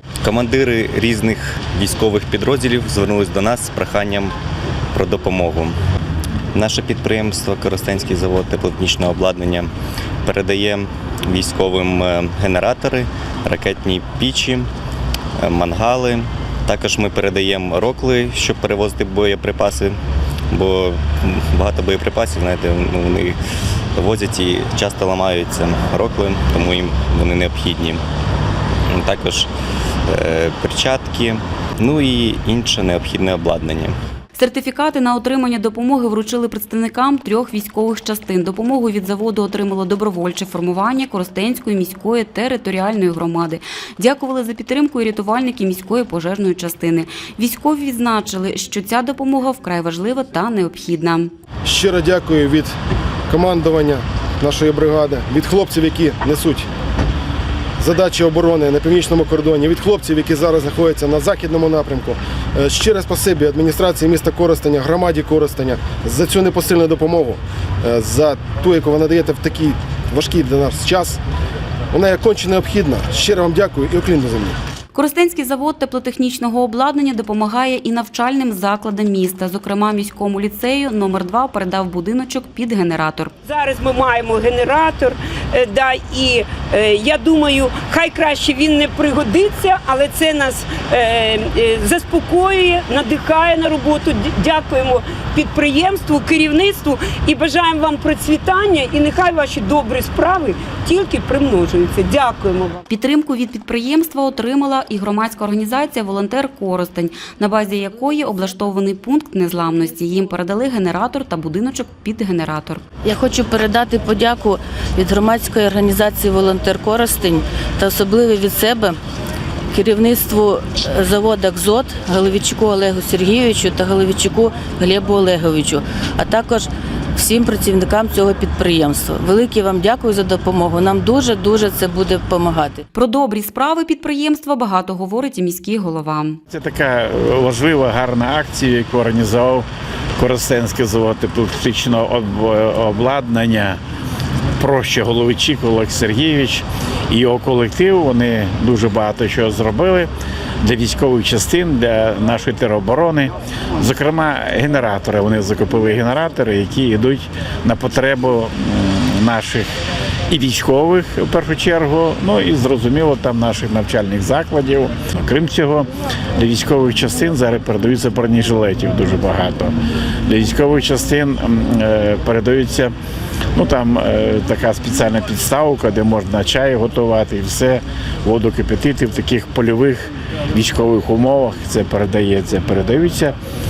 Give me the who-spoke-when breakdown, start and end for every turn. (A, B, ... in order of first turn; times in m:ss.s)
0:00.2-0:04.3 A
0:04.9-0:05.8 A
0:06.6-0:09.7 A
0:10.2-0:14.7 A
0:15.4-0:20.0 A
0:20.5-0:23.4 A
0:24.0-0:28.0 A
0:28.9-0:29.5 A
0:30.1-0:34.0 A
0:34.4-0:51.3 B
0:51.7-0:52.7 C
0:53.3-0:56.6 C
0:57.8-1:11.2 C
1:11.9-1:14.6 C
1:14.9-1:23.3 B
1:23.5-1:42.8 D
1:42.9-1:52.8 B
1:53.0-1:59.0 E
1:59.7-2:12.8 E
2:12.9-2:16.4 B
2:16.5-2:23.8 F
2:24.6-2:30.1 F
2:30.6-2:39.7 F
2:40.3-2:49.8 F
2:50.3-2:52.9 F
2:53.6-3:03.4 F